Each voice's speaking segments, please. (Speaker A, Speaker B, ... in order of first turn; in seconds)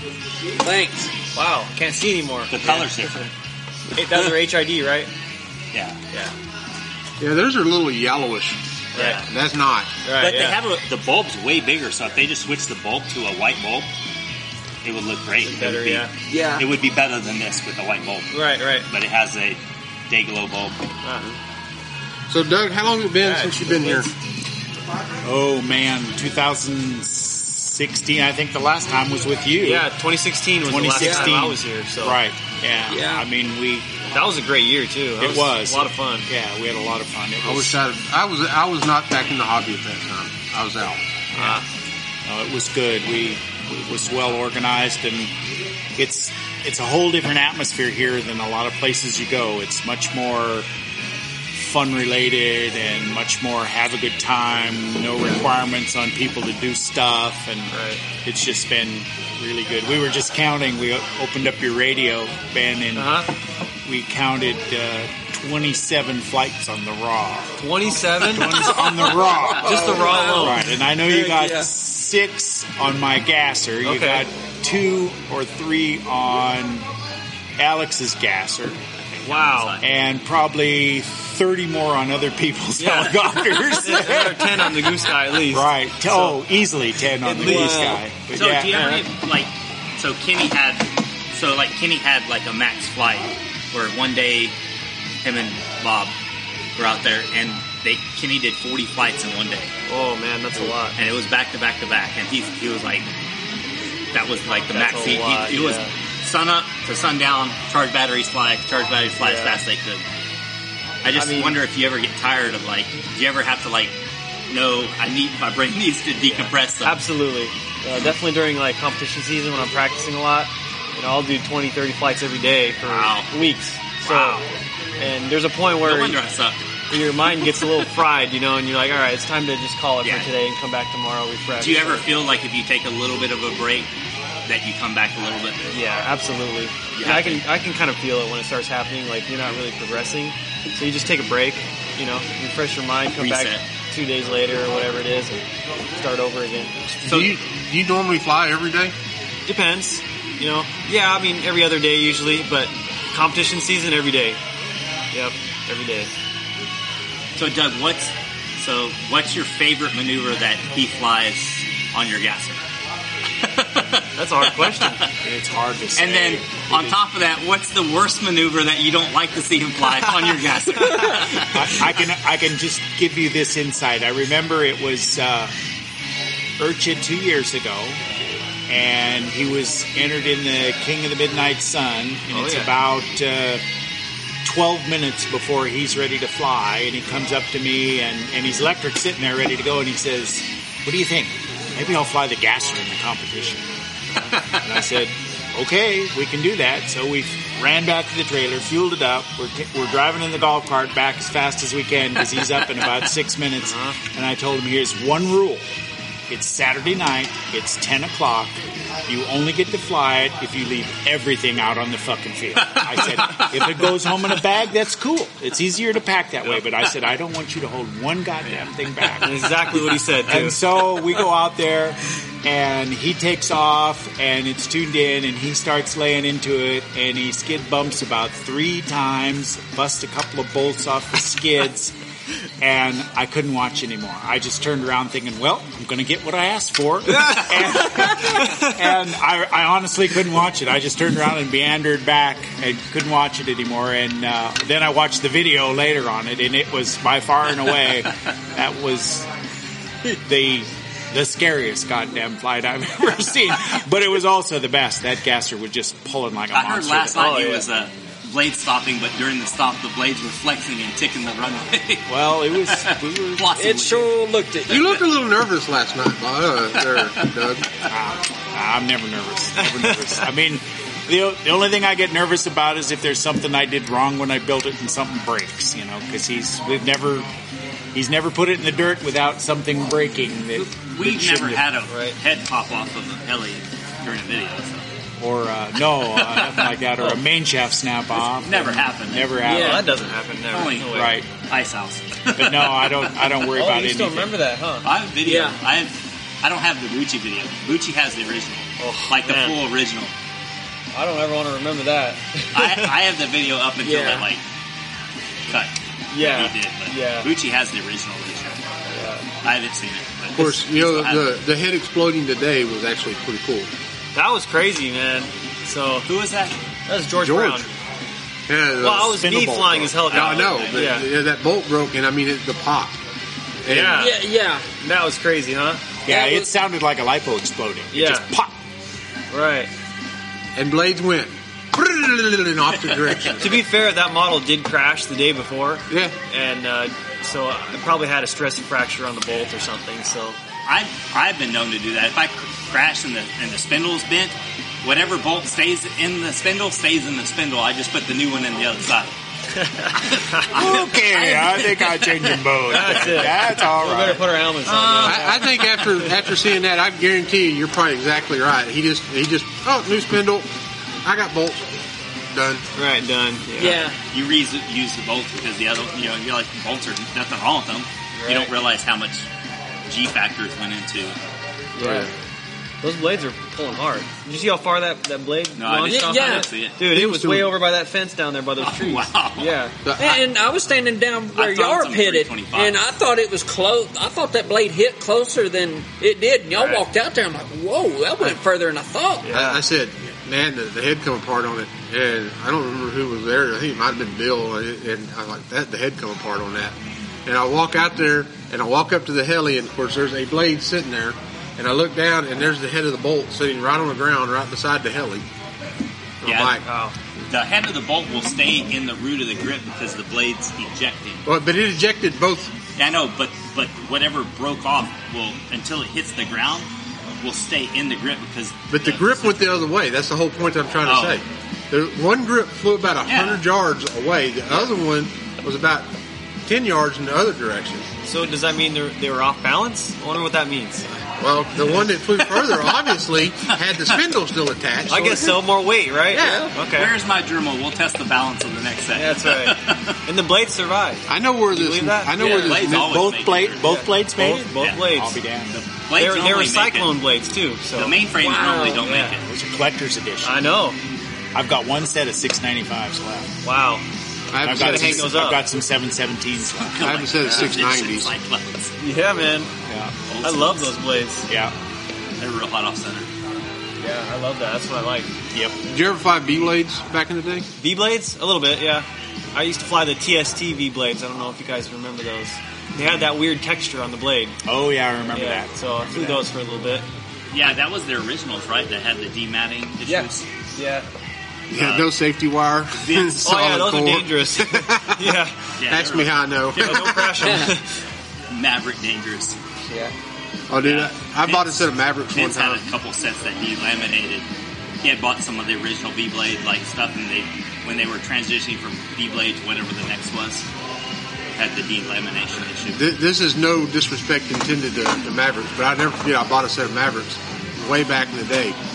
Speaker A: 0.6-1.1, 16.3-16.6, 31.0-31.4, 32.9-33.2, 68.8-71.4, 263.6-264.9, 289.4-289.9, 295.2-295.6, 303.8-304.2, 324.0-324.6, 326.1-326.5, 363.6-364.0, 375.9-376.5, 380.0-389.3, 436.1-436.5, 448.2-448.9
Speaker B: 1.3-3.3, 3.9-5.1, 8.9-9.2, 10.0-10.6, 15.4-16.1, 18.3-18.9, 21.0-21.4, 23.2-24.1, 29.6-32.2, 34.1-36.3, 41.3-41.6, 57.7-58.0, 62.9-63.3, 67.6-68.8, 69.5-70.7, 71.3-71.6, 73.8-74.2, 79.2-79.8, 82.8-86.4, 87.2-88.0, 88.7-89.0, 99.9-101.0, 104.7-105.9, 109.2-109.6, 111.1-111.6, 116.3-124.4, 125.0-126.2, 126.9-132.1, 135.7-145.4, 146.0-147.3, 149.5-154.4, 155.1-156.1, 164.2-165.0, 182.3-182.7, 203.6-204.0, 219.2-220.6, 237.1-238.7, 257.1-257.7, 269.6-270.2, 281.9-282.2, 289.4-291.2, 293.5-294.9, 298.8-299.6, 300.9-302.9, 306.1-307.3, 308.9-309.3, 314.1-316.1, 316.9-317.7, 318.8-321.1, 323.7-324.2, 324.8-325.8, 327.9-328.3, 329.3-329.7, 333.4-340.4, 349.6-350.5, 352.7-356.1, 362.8-363.8, 368.1-368.5, 371.8-372.1, 372.8-379.7, 386.5-386.8, 389.2-389.6, 406.2-406.9, 428.0-430.9, 434.9-436.9, 438.9-442.5, 443.6-445.1, 445.9-448.0, 448.8-449.1, 450.2-450.8, 453.4-453.8, 454.4-455.4, 458.8-459.5, 460.2-461.3, 463.8-465.1, 467.6-474.4, 475.1-476.9, 479.8-480.9, 483.2-485.3, 486.6-487.6
Speaker C: 2.5-3.3, 5.7-6.0, 9.0-9.2, 10.2-13.9, 14.8-20.8, 79.2-79.8, 88.3-94.5, 95.2-96.1, 96.8-99.7, 100.9-103.1, 104.1-110.0, 111.0-113.9, 114.5-117.0, 122.8-123.3, 124.0-124.5, 125.8-126.6, 130.0-130.3, 131.6-133.9, 134.4-135.6, 136.9-137.4, 143.2-143.6, 157.4-162.6, 163.4-164.9, 166.0-171.7, 212.8-213.4, 256.5-264.1, 266.9-267.3, 280.5-284.8, 286.0-287.1, 288.4-289.4, 290.5-293.3, 294.8-300.1, 302.5-304.4, 305.5-308.6, 309.4-311.3, 316.1-316.6, 320.1-321.0, 340.6-349.1, 350.3-352.4, 354.7-355.8, 363.6-369.2, 369.9-371.2, 375.6-376.8, 378.6-379.6, 381.3-382.9, 406.2-406.6, 407.3-411.2, 412.8-416.7, 417.2-419.6, 420.8-421.2, 423.1-423.4, 436.7-440.0, 442.2-443.6, 445.5-446.9, 447.8-449.3, 456.5-458.7, 460.1-460.7, 462.2-463.1, 477.3-480.2, 481.5-481.9, 482.7-483.3, 485.6-487.0, 488.3-489.4, 490.6-494.3, 494.8-500.4, 501.4-502.8
Speaker D: 7.2-8.6, 9.2-9.9, 22.3-24.1, 37.4-41.0, 147.0-148.9, 264.7-267.7, 310.3-313.7, 317.2-317.6, 318.5-319.3, 320.1-322.9, 323.6-324.1, 330.5-333.6, 335.9-336.1, 355.0-360.5, 361.0-361.7, 362.3-362.6, 371.8-372.1, 376.8-377.5, 379.8-380.2, 389.3-405.2, 406.2-406.6, 411.2-412.5, 418.7-425.9, 426.4-427.9, 431.2-435.4, 436.1-436.5, 441.1-443.0, 454.3-455.2, 456.8-458.1, 465.7-467.5, 481.5-487.4, 490.5-492.6, 502.7-508.6
Speaker E: 25.2-29.9, 30.6-33.9, 35.2-37.8, 41.3-41.6, 42.3-45.3, 46.0-50.7, 51.5-63.3, 63.8-67.5, 68.2-76.9, 77.6-78.8, 79.8-88.9, 165.2-167.0, 171.4-175.5, 176.6-178.0, 178.7-183.6, 184.4-193.6, 194.4-205.6, 206.3-231.9, 232.6-249.3, 250.1-257.5, 262.1-263.5, 267.9-277.2, 277.9-281.8, 285.2-289.9, 290.9-291.3, 292.4-294.4, 319.2-320.1, 326.0-328.5, 350.4-354.3, 442.8-445.6, 449.2-450.4, 451.3-453.3, 454.4-457.0, 459.7-460.0, 461.3-461.5, 474.4-476.3